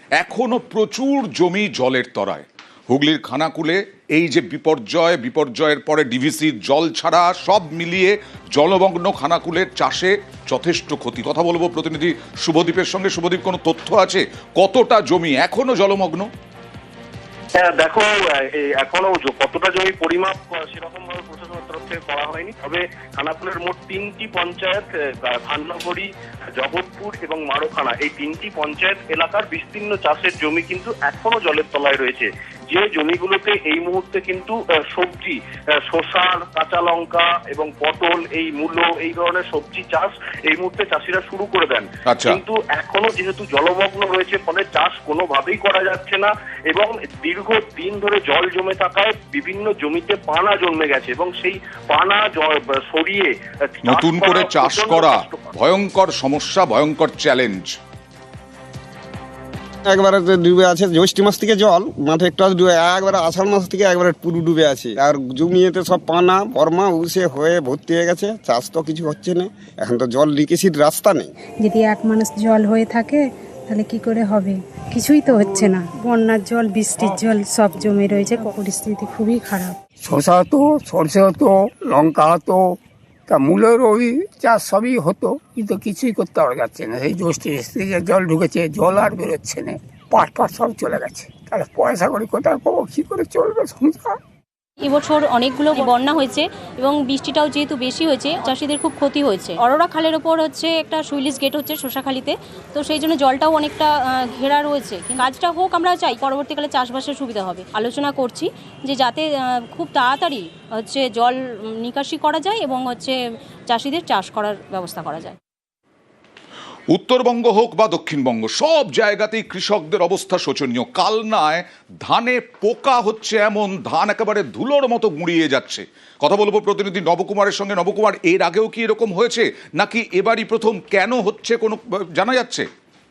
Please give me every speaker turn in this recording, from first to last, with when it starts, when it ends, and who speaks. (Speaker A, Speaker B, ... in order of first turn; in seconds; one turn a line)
Speaker A: 0.2-16.3
Speaker B: 17.5-55.5
Speaker A: 42.0-42.4
Speaker A: 53.9-57.7
Speaker C: 59.9-71.3
Speaker D: 71.6-79.7
Speaker E: 80.0-82.8
Speaker E: 83.3-94.2
Speaker F: 94.8-113.2
Speaker F: 113.7-115.3
Speaker A: 116.9-132.7